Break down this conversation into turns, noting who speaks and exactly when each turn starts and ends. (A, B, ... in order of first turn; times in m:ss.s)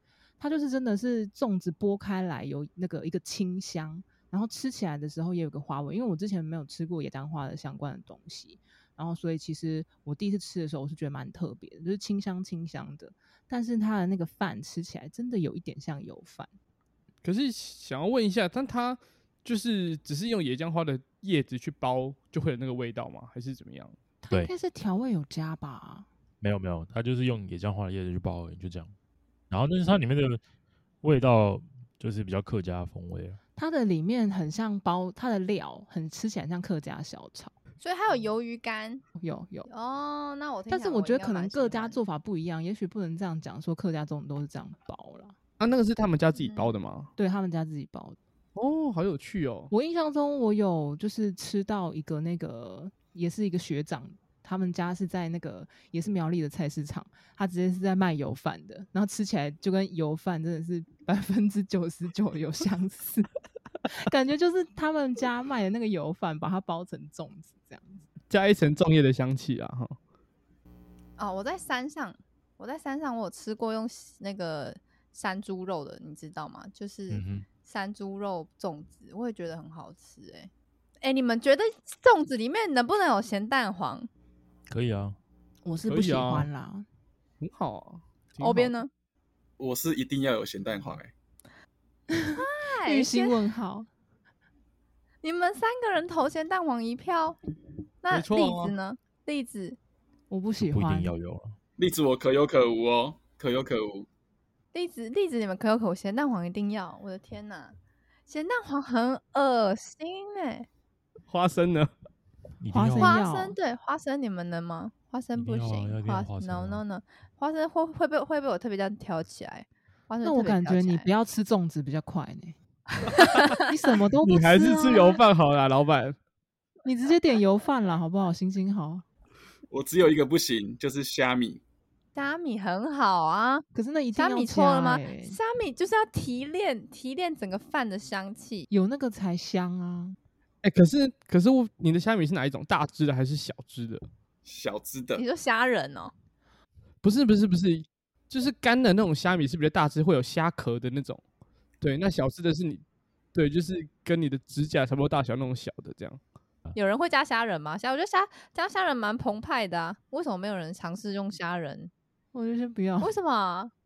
0:00.4-0:16.5 A
0:17.2-0:24.0 B
0:24.2-0:26.1 A
0:26.4-0:28.9 C
0:29.5-0:30.4 C
0:31.0-0:33.4 C
0:33.6-0:37.5 A
0:37.8-0:39.0 D
0:39.2-0:39.7 A
0:39.7-0:42.0 D
0:40.7-0:45.3 A
0:45.6-0:47.1 B
0:46.4-0:46.8 D
0:47.2-0:48.2 A
0:48.6-0:49.7 B
0:49.7-1:03.3 A
1:03.9-1:08.0 A
1:08.3-1:10.0 B
1:11.2-1:20.5 D
1:17.1-1:17.4 C
1:21.0-1:24.1 D
1:24.7-1:25.2 C
1:25.6-1:26.8 A
1:25.8-1:26.5 B
1:27.4-1:28.7 B
1:28.4-1:28.9 D
1:29.6-1:31.1 E
1:32.1-1:33.9 A
1:32.4-1:33.4 D
1:35.2-1:37.4 D
1:38.0-1:39.8 D
1:38.1-1:38.7 B
1:40.3-1:41.1 A
1:40.6-1:41.6 C
1:41.8-1:44.1 E
1:44.7-1:50.7 D
1:51.3-1:51.9 B
1:52.6-1:53.2 C
1:52.7-1:53.6 A
1:53.0-2:01.1 D
1:55.3-1:56.8 C
2:00.2-2:02.6 A
2:03.0-2:03.6 D
2:03.5-2:05.2 A
2:04.2-2:06.2 B
2:06.8-2:09.0 A
2:09.7-2:11.6 E
2:12.1-2:13.6 D
2:13.7-2:15.4 A
2:14.2-2:18.7 D
2:18.7-2:20.2 A
2:20.6-2:24.0 B
2:24.4-2:25.2 E
2:25.1-2:26.1 D
2:27.0-2:31.2 B
2:31.8-2:32.8 B
2:33.3-2:36.2 B
2:36.7-2:41.9 D
2:42.3-2:43.1 A
2:43.0-2:43.7 D